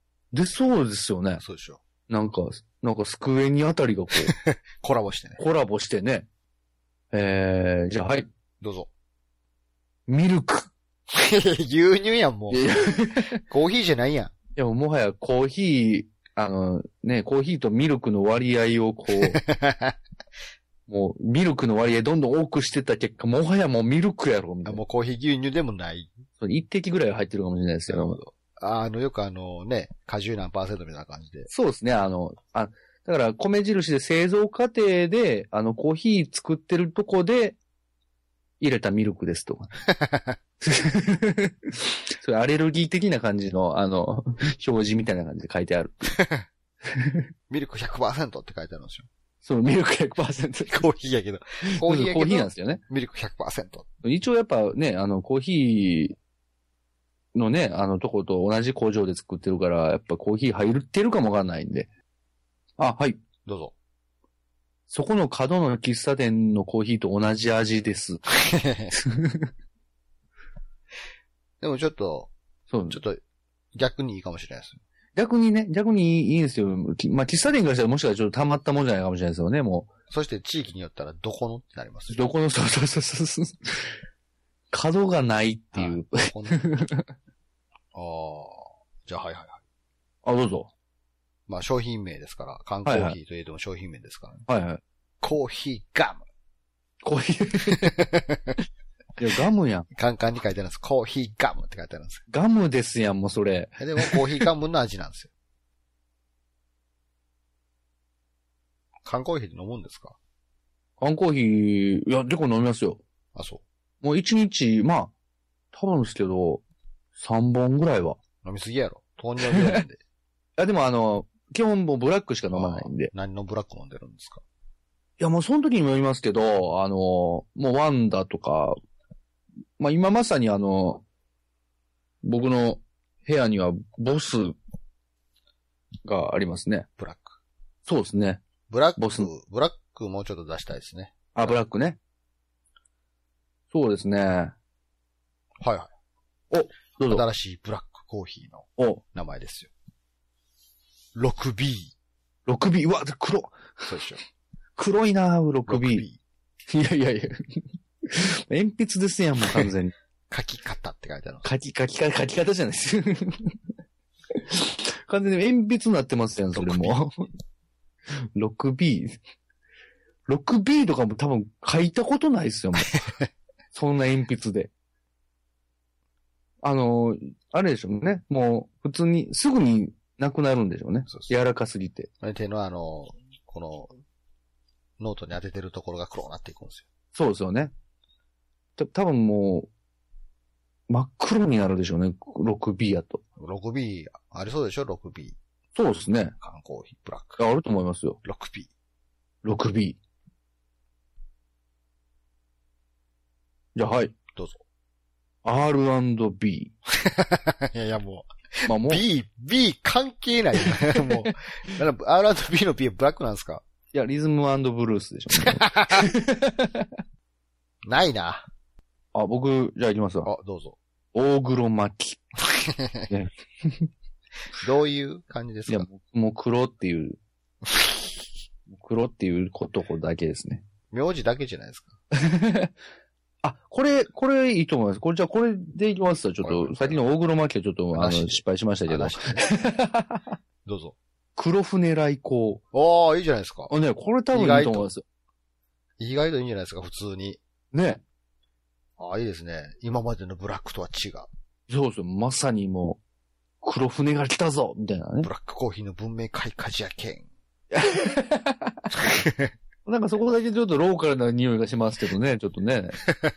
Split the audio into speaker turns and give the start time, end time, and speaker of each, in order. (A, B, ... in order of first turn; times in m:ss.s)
0:00.3-0:01.4 A
0:01.4-0:01.8 B
0:02.1-0:04.3 A
0:04.3-0:05.4 B
0:05.4-0:06.2 A
0:07.1-0:08.2 A
0:08.6-0:08.9 B
0:10.1-0:10.7 A
0:11.1-0:12.7 B
0:12.5-0:13.4 A
0:13.4-0:14.3 B
0:14.6-0:19.4 A
0:19.4-0:19.9 B
0:20.9-0:24.8 A
0:24.6-0:26.1 B
0:26.4-0:28.2 A
0:27.9-0:31.5 B
0:31.5-0:37.6 A
0:38.6-0:39.7 A
0:39.9-0:40.4 B
0:40.6-0:46.2 A
0:46.1-0:46.4 B
0:47.5-0:49.1 B
0:49.4-0:50.8 A
0:50.7-0:53.8 B
0:51.7-0:52.8 A
0:54.0-0:56.2 A
0:57.3-1:01.9 A
1:02.8-1:03.2 A
1:03.4-1:03.7 B
1:04.9-1:08.2 A
1:08.4-1:08.9 B
1:08.9-1:09.5 A
1:11.6-1:12.3 B
1:12.7-1:13.0 A
1:12.9-1:13.2 B
1:13.7-1:14.8 B
1:15.2-1:19.9 A
1:20.1-1:22.3 B
1:22.1-1:24.0 A
1:24.7-1:27.0 A
1:25.7-1:26.6 B
1:27.9-1:29.6 B
1:30.2-1:30.7 A
1:31.5-1:34.4 B
1:32.8-1:33.2 A
1:34.5-1:34.8 A
1:35.2-1:36.2 B
1:37.0-1:38.0 A
1:37.8-1:38.6 B
1:39.2-1:39.9 A
1:39.9-1:42.2 B
1:42.3-1:44.4 A
1:43.8-1:45.3 B
1:49.0-1:50.2 B
1:51.0-1:53.0 A
1:53.3-1:53.6 B
1:54.0-1:55.1 A
1:55.7-1:56.6 A
1:57.2-1:58.2 A
1:58.4-2:00.0 B
1:59.5-1:59.8 A
2:00.6-2:03.1 A
2:02.5-2:04.4 B
2:05.2-2:08.7 A
2:09.8-2:11.0 A
2:12.2-2:14.6 A
2:16.0-2:16.8 A
2:17.0-2:17.4 B
2:17.8-2:18.4 A
2:18.7-2:21.6 B
2:19.0-2:19.3 A
2:21.3-2:22.0 A
2:23.7-2:24.5 A
2:25.6-2:25.9 B
2:26.5-2:27.2 A
2:27.1-2:29.7 B
2:31.2-2:31.9 B
2:32.4-2:33.9 A
2:33.9-2:34.2 B
2:34.8-2:36.0 A
2:35.7-2:36.2 B
2:36.7-2:39.9 A
2:40.3-2:41.4 B
2:41.4-2:43.5 A
2:44.4-2:47.3 A
2:46.5-2:47.0 B
2:48.3-2:49.2 A
2:50.3-2:53.0 A
2:53.7-2:54.7 A
2:56.6-3:02.1 A
3:02.2-3:03.9 B
3:05.0-3:06.8 B
3:07.1-3:07.7 A
3:08.8-3:09.7 A
3:10.9-3:13.2 A
3:13.4-3:15.4 B
3:15.7-3:16.3 A
3:16.4-3:17.4 B
3:17.4-3:18.2 A
3:18.2-3:18.7 B
3:19.4-3:20.0 A
3:23.8-3:24.1 A
3:24.3-3:24.6 B
3:25.4-3:26.7 A
3:27.0-3:33.6 B
3:28.7-3:29.0 A
3:33.9-3:36.9 A
3:35.3-3:36.0 B
3:37.9-3:38.4 B
3:39.1-3:40.3 A
3:40.2-3:40.8 B
3:41.1-3:42.2 A
3:42.4-3:43.1 B
3:43.1-3:43.9 A
3:44.6-3:45.9 B
3:45.7-3:47.2 A
3:47.7-3:48.1 B
3:48.7-3:50.6 A
3:50.9-3:52.0 B
3:52.2-3:52.7 A
3:53.4-4:00.3 A
3:56.4-3:57.0 B
3:57.9-3:59.4 B
4:00.6-4:01.0 B
4:01.4-4:02.6 A
4:02.7-4:03.7 B
4:03.7-4:05.0 A
4:04.3-4:04.9 B
4:06.0-4:07.4 B
4:07.7-4:08.0 A
4:09.0-4:11.3 B
4:11.7-4:13.0 A
4:13.6-4:15.3 A
4:15.2-4:17.3 B
4:17.7-4:18.8 A
4:18.9-4:19.5 B
4:19.8-4:23.0 A